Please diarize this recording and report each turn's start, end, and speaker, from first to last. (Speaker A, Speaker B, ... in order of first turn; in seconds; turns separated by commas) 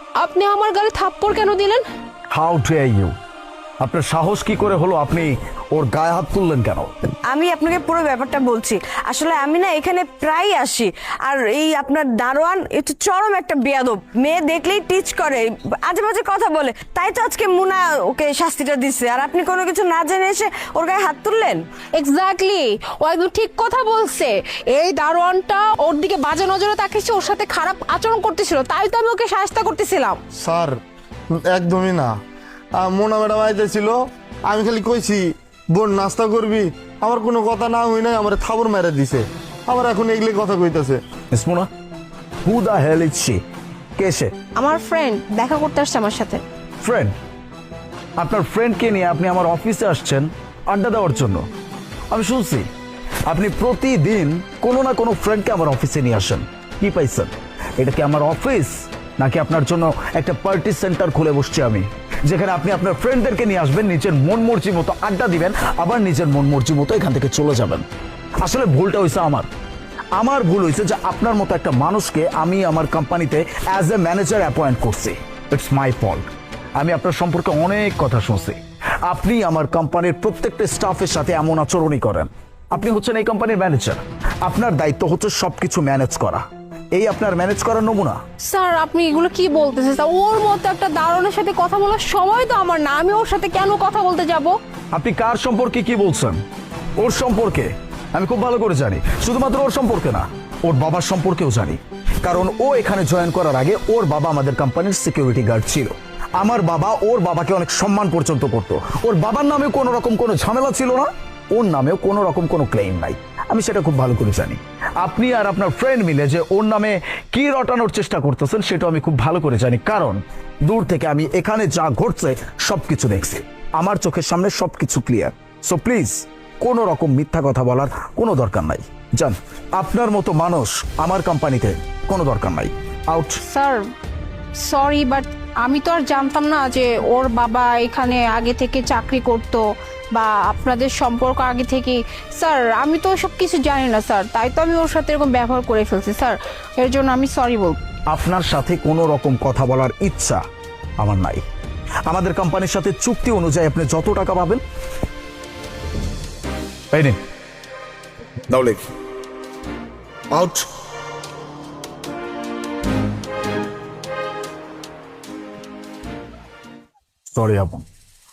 Speaker A: 0.2-1.8, Speaker B: 2.3-3.1, Speaker B: 3.8-6.9, Speaker C: 7.3-21.6, Speaker A: 22.0-30.2, Speaker D: 30.4-30.8, Speaker D: 31.3-32.1, Speaker D: 32.8-41.0, Speaker B: 41.3-41.7, Speaker B: 42.5-43.4, Speaker B: 44.0-44.3, Speaker A: 44.5-46.4, Speaker B: 46.8-47.1, Speaker B: 48.2-51.5, Speaker B: 52.1-52.7, Speaker B: 53.3-67.8, Speaker B: 68.4-69.5, Speaker B: 70.2-88.2, Speaker A: 88.5-94.5, Speaker B: 94.9-96.4, Speaker B: 97.0-133.4, Speaker A: 133.4-133.8, Speaker A: 134.6-147.8, Speaker B: 148.1-150.4, Speaker B: 151.0-151.4, Speaker B: 152.1-154.6, Speaker B: 156.9-157.2, Speaker B: 158.5-158.9, Speaker B: 160.3-160.7, Speaker B: 167.3-167.8